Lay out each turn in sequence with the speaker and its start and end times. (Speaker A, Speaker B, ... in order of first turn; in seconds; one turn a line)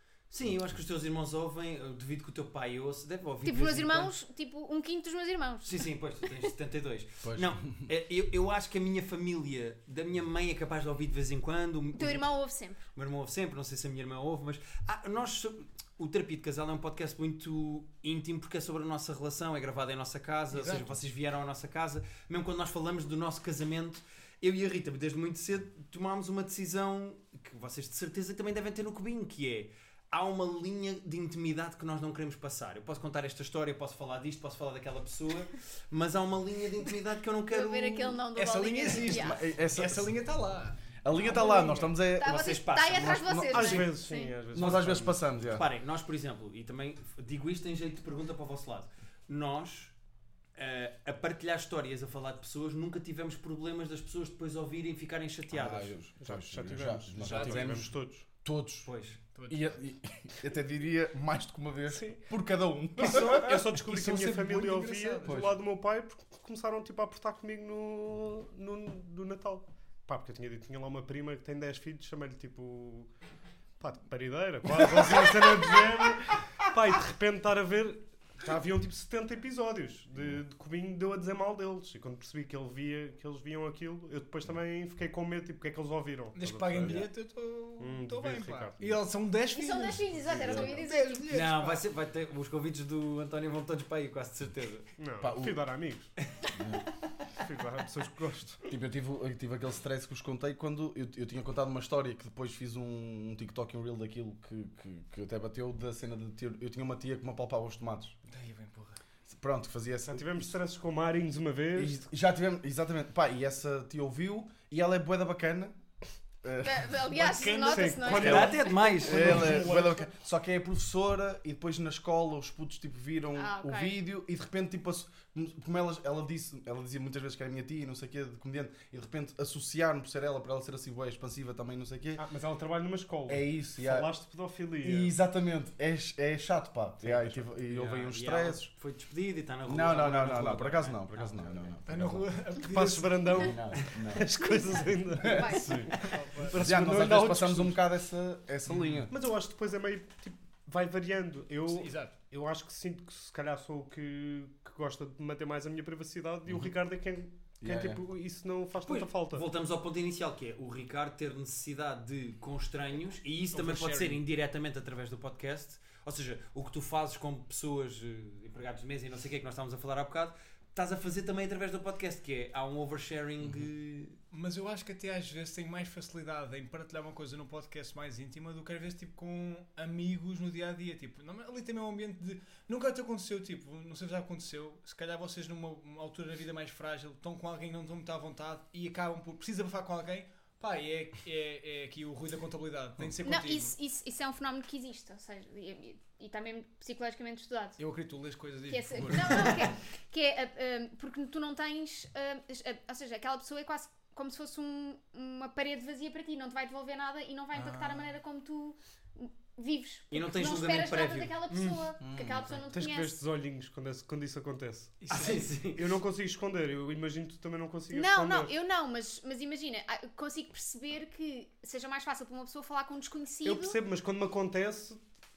Speaker A: 0.3-4.1
Speaker B: 3.4-5.8
Speaker A: 5.6-12.3
Speaker C: 7.2-7.9
Speaker B: 12.0-12.8
Speaker A: 12.9-38.1
Speaker D: 20.5-21.0
Speaker B: 37.5-39.4
Speaker D: 38.2-41.9
Speaker C: 39.0-40.1
Speaker C: 41.0-43.9
Speaker B: 41.2-44.3
Speaker A: 42.2-43.9
Speaker E: 43.4-45.2
Speaker C: 44.5-45.7
Speaker A: 44.6-44.9
Speaker A: 45.5-49.9
Speaker A: 50.5-55.9
Speaker C: 55.5-57.9
Speaker E: 56.2-58.2
Speaker D: 57.1-57.8
Speaker C: 58.4-58.9
Speaker A: 58.9-59.2
Speaker D: 59.3-59.7
Speaker C: 59.5-63.5
Speaker D: 63.0-65.5
Speaker E: 63.0-73.1
Speaker C: 65.2-65.6
Speaker E: 73.8-87.1
Speaker D: 86.3-91.8
Speaker E: 87.8-89.0
Speaker B: 89.5-91.3
Speaker C: 90.2-90.8
Speaker A: 91.3-94.9
Speaker E: 95.0-96.1
Speaker C: 95.2-95.6
Speaker C: 96.5-96.8
Speaker E: 97.4-98.7
Speaker C: 98.7-108.1
Speaker D: 108.3-109.0
Speaker C: 109.3-110.6
Speaker E: 110.0-112.0
Speaker C: 111.7-115.8
Speaker C: 116.4-132.2
Speaker B: 116.6-118.8
Speaker E: 117.3-120.1
Speaker A: 118.0-119.7
Speaker B: 123.3-124.0
Speaker E: 132.2-135.1
Speaker C: 133.3-134.1
Speaker C: 134.8-138.7
Speaker E: 137.0-137.4
Speaker A: 137.7-141.8
Speaker C: 139.7-142.2
Speaker D: 141.8-143.5
Speaker E: 142.6-147.8
Speaker C: 143.4-144.3
Speaker C: 145.2-145.8
Speaker B: 145.2-145.9
Speaker D: 145.9-146.6
Speaker C: 146.5-149.1
Speaker D: 148.7-149.1
Speaker E: 149.1-159.4
Speaker D: 151.7-152.2
Speaker C: 156.4-156.7
Speaker C: 157.6-158.0
Speaker A: 158.8-174.2
Speaker D: 163.5-164.2
Speaker D: 174.3-193.7
Speaker B: 193.2-197.8
Speaker D: 197.8-199.7
Speaker B: 198.7-213.2
Speaker D: 207.6-208.1
Speaker A: 210.1-211.9
Speaker C: 212.0-212.5
Speaker E: 212.7-215.0
Speaker D: 215.0-215.5
Speaker A: 215.1-215.9
Speaker E: 215.7-218.5
Speaker B: 217.9-223.8
Speaker E: 223.4-225.0